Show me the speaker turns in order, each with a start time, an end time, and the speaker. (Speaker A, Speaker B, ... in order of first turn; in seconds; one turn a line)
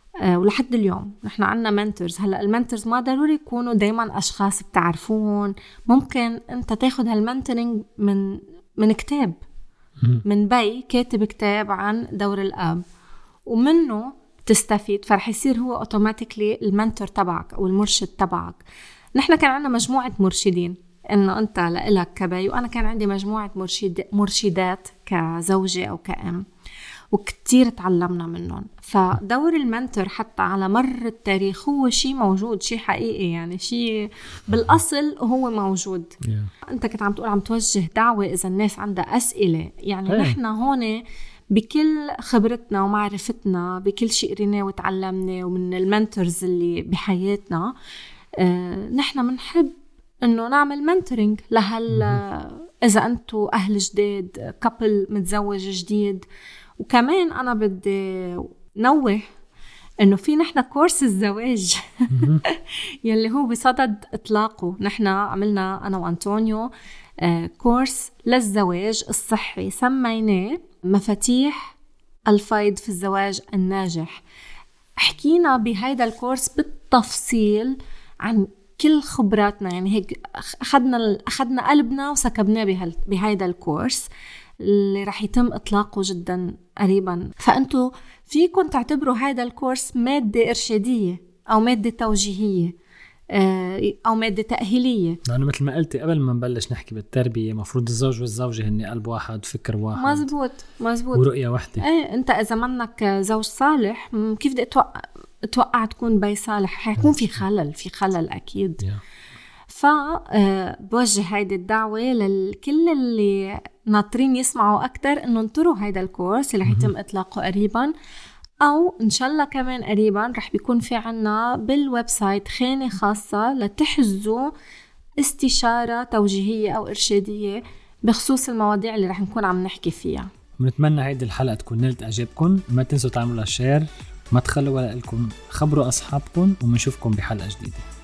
Speaker A: 0.2-9.4
Speaker A: 10.2-12.8
Speaker A: 13.5-18.6
Speaker A: 19.2-26.5
Speaker A: 27.1-47.8
Speaker B: 36.2-36.5
Speaker B: 40.1-40.4
Speaker A: 48.4-56.3
Speaker B: 51.9-52.2
Speaker A: 56.8-59.2
Speaker A: 60.0-71.8
Speaker B: 62.1-62.4
Speaker A: 72.3-74.2
Speaker A: 75.0-84.1
Speaker A: 84.6-92.8
Speaker A: 93.3-95.2
Speaker B: 95.2-100.3
Speaker A: 100.0-101.3
Speaker B: 101.1-101.9
Speaker A: 101.8-108.8
Speaker A: 109.7-117.9
Speaker B: 116.7-116.9
Speaker A: 118.6-124.5
Speaker A: 125.2-130.3
Speaker B: 130.6-137.9